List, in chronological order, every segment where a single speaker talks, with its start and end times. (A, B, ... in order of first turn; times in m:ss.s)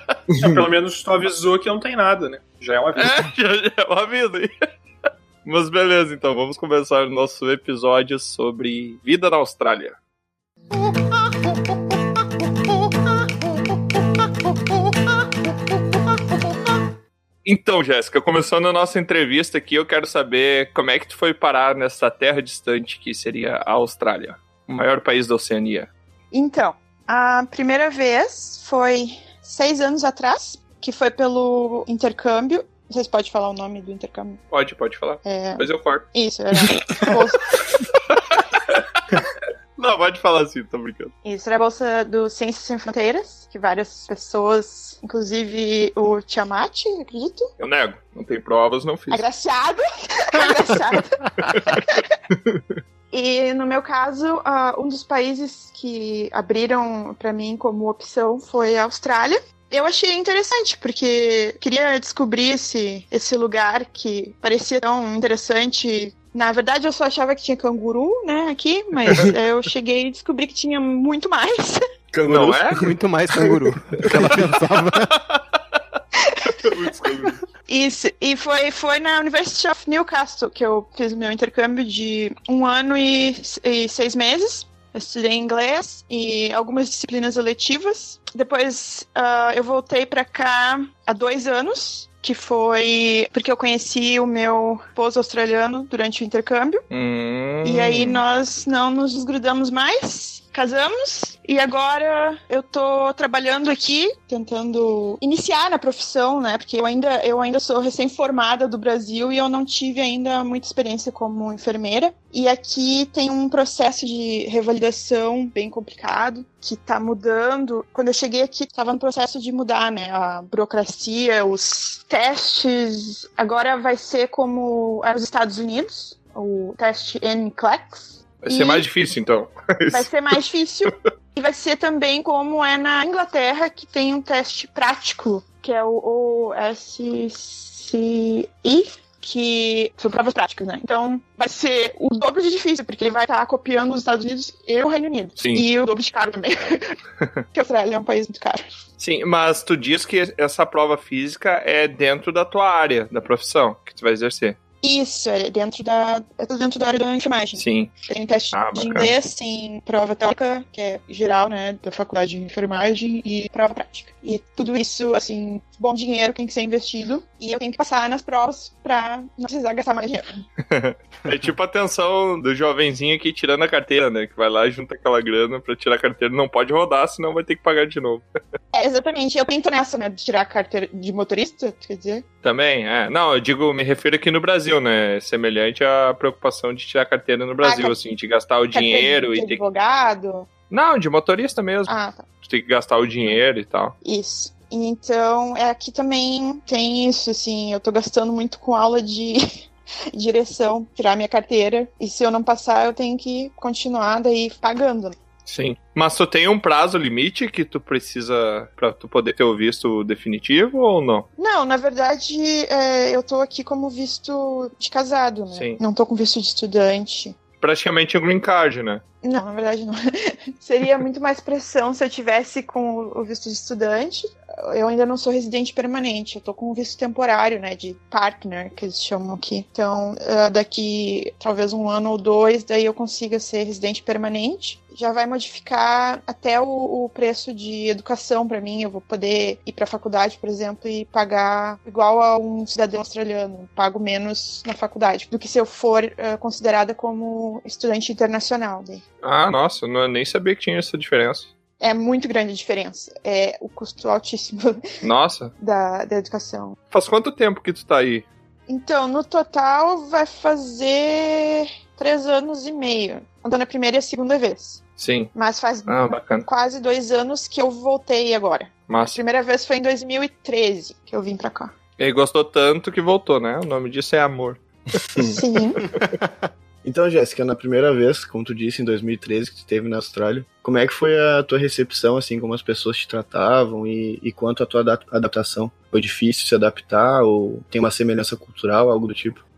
0:00.4-0:03.2 A
0:03.0-0:04.5 B
0:05.4-0:10.0 B
0:17.4-0:25.9 B
0:26.3-0:34.4 C
0:34.5-0:36.0 B
0:35.2-0:37.6 C
0:38.1-0:39.0 B
0:39.8-0:41.1 B
0:41.2-0:47.5 C
0:47.6-0:49.2 B
0:49.1-0:52.2 C
0:51.5-0:51.8 B
0:53.1-1:11.8 C
1:12.1-1:12.8 D
1:12.2-1:12.8 B
1:12.8-1:15.2 E
1:15.1-1:15.4 B
1:16.6-1:17.4 B
1:17.7-1:36.8 C
1:36.9-1:38.2 B
1:37.6-2:08.8 C
2:08.4-2:10.1 B
2:09.9-2:27.0 C
2:25.4-2:25.6 B
2:27.5-2:28.6 C
2:29.0-2:34.6 B
2:34.8-2:50.4 C
2:37.6-2:37.9 B
2:38.5-2:39.1 B
2:50.7-2:58.2 B
2:58.7-3:02.2 C
3:02.4-3:09.6 B
3:07.6-3:08.0 C
3:08.7-3:10.5 C
3:10.7-3:13.9 B
3:11.9-3:12.2 C
3:14.0-3:19.4 C
3:20.1-3:25.2 C
3:25.4-3:31.2 B
3:31.4-3:37.4 C
3:35.5-3:35.8 B
3:37.6-3:39.0 B
3:39.2-4:09.0 C
4:09.2-4:11.5 B
4:11.8-4:14.8 C
4:15.0-4:15.5 B
4:15.6-4:16.8 C
4:16.9-4:18.2 B
4:18.7-4:24.8 C
4:25.0-4:25.3 B
4:25.3-4:31.7 C
4:25.9-4:26.4 B
4:28.9-4:29.2 B
4:32.0-4:34.6 B
4:35.2-4:35.9 C
4:36.8-4:49.4 D